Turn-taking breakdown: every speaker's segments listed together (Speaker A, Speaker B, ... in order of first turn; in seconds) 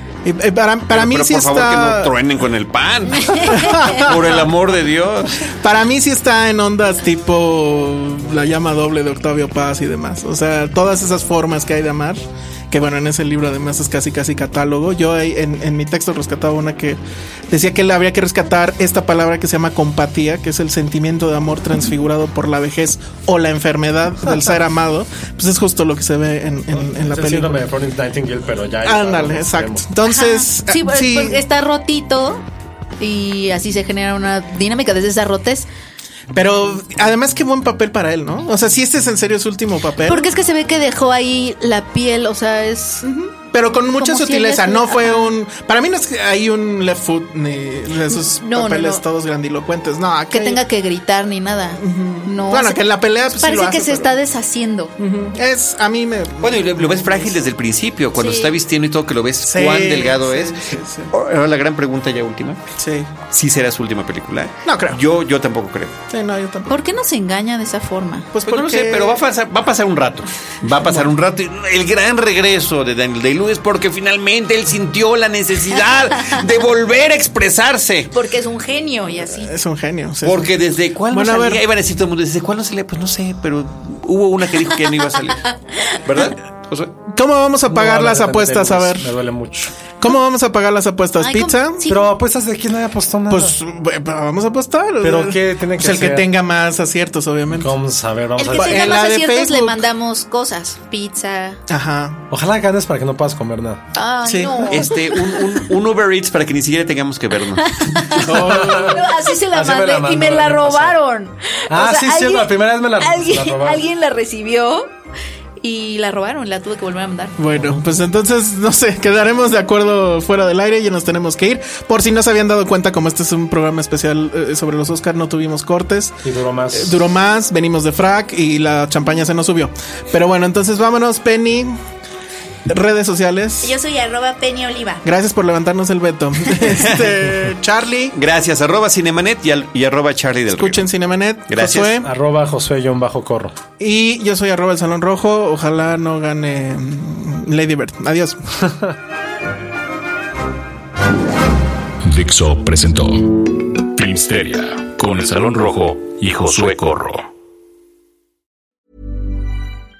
Speaker A: 0.2-2.1, 3.4-4.5, 5.5-17.0, 17.5-27.6, 28.9-31.4, 36.3-40.3, 43.0-50.6, 51.8-54.1, 55.0-57.5, 59.4-61.1, 62.8-63.1, 64.7-65.0, 66.1-66.8, 68.3-69.2, 79.4-80.5, 81.1-81.6, 87.1-89.1, 90.0-91.8, 93.3-97.7, 98.5-99.8, 101.7-102.2, 104.3-104.9, 108.2-109.1, 117.4-126.2, 126.7-131.8, 132.7-133.7, 135.0-138.1, 140.5-142.1, 143.8-148.4
Speaker B: 0.9-5.5, 56.4-62.6, 63.3-66.0, 68.5-78.1, 80.2-85.4, 86.1-86.9, 104.7-107.8, 136.7-137.2, 138.1-140.9, 141.5-142.0
Speaker C: 3.2-3.7, 30.1-32.4, 33.0-35.7, 40.1-43.0, 44.0-45.4, 48.1-49.0, 50.3-54.9, 58.2-58.5, 66.7-68.3, 78.1-79.5, 85.5-86.0, 91.2-92.1, 98.4-101.6, 103.9-105.6, 107.6-114.9, 115.6-117.4, 133.6-135.0
Speaker D: 26.7-29.9, 87.7-89.7, 91.9-93.6, 95.0-96.3, 97.5-99.1, 102.3-103.8, 108.1-111.0, 111.7-113.8, 117.5-117.8, 126.2-127.0, 142.0-143.6
Speaker E: 152.0-157.3